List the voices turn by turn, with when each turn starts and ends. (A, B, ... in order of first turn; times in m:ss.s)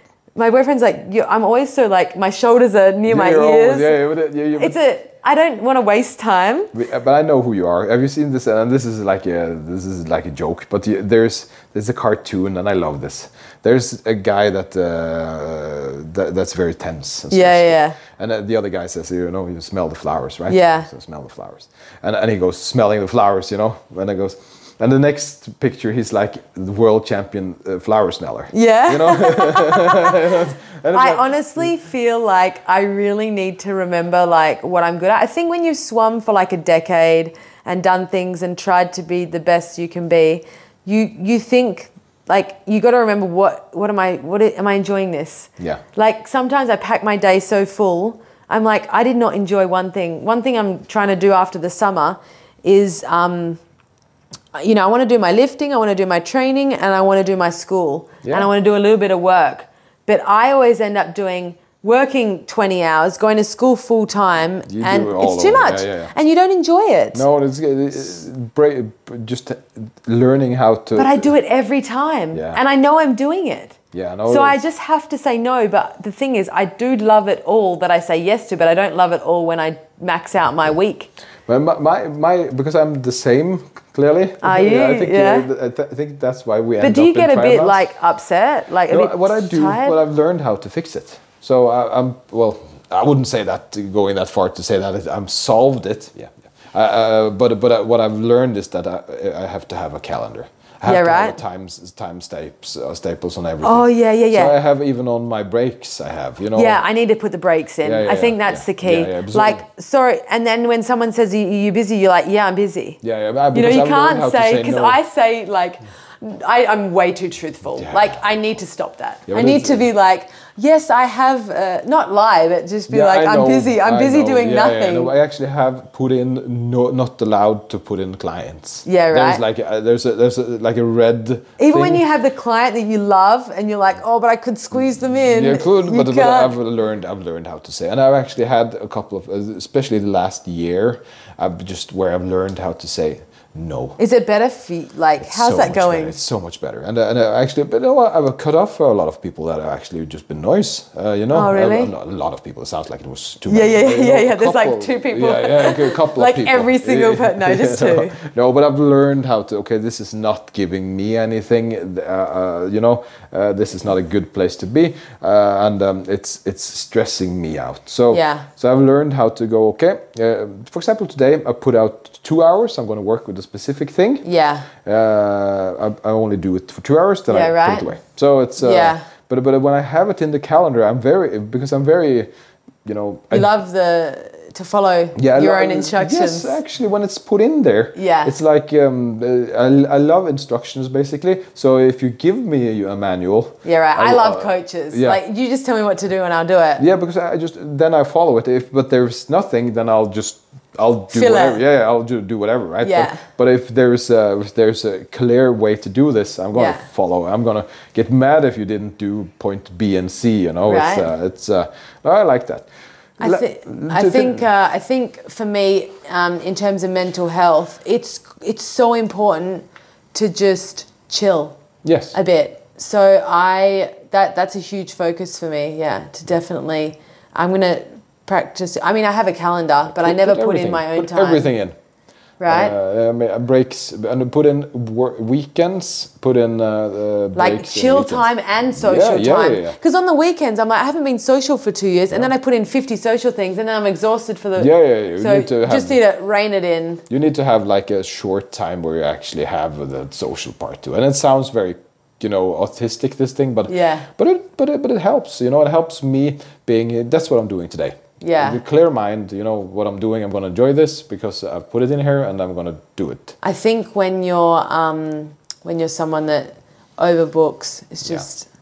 0:00.4-0:04.0 A
0:03.1-0:04.8 B
0:04.6-0:06.7 A
0:06.7-0:31.7 B
0:17.3-0:18.0 A
0:20.5-0:20.9 A
0:28.5-0:53.6 A
0:54.5-1:07.2 A
0:58.2-0:58.5 B
1:04.7-1:06.1 B
1:07.1-1:11.3 B
1:11.0-1:21.1 A
1:12.3-1:12.6 B
1:13.9-1:14.6 B
1:21.5-1:27.9 B
1:24.4-1:25.5 A
1:26.8-1:30.0 A
1:28.9-1:46.8 B
1:40.8-1:41.4 A
1:43.6-1:44.6 A
1:46.5-1:53.0 A
1:47.8-1:49.6 B
1:53.0-1:55.0 B
1:53.5-2:05.1 A
1:57.8-1:58.2 B
1:59.3-1:59.9 B
2:02.9-2:12.0 B
2:08.9-2:09.4 A
2:11.6-2:16.6 A
2:15.1-2:24.0 B
2:24.0-2:26.2 A
2:25.2-3:02.3 B
2:31.3-2:31.9 A
2:33.5-2:38.2 A
2:48.1-2:48.5 A
2:54.2-2:54.7 A
2:57.3-2:58.0 A
2:58.6-2:59.0 A
3:02.8-3:03.5 B
3:03.3-3:06.6 A
3:05.2-3:15.2 B
3:08.0-3:08.4 A
3:13.6-3:16.8 A
3:16.8-3:32.7 B
3:21.1-3:21.6 A
3:22.8-3:23.2 A
3:26.6-3:26.9 A
3:30.7-3:31.1 A
3:33.2-3:34.5 B
3:33.2-3:41.6 A
3:41.8-3:42.2 B
3:42.1-3:51.5 A
3:49.9-3:51.8 B
3:52.4-3:52.8 A
3:52.5-3:59.8 B
3:57.4-4:07.0 A
4:04.6-4:06.0 B
4:07.1-4:23.4 B
4:13.7-4:14.1 A
4:18.2-4:18.6 A
4:23.4-4:28.5 A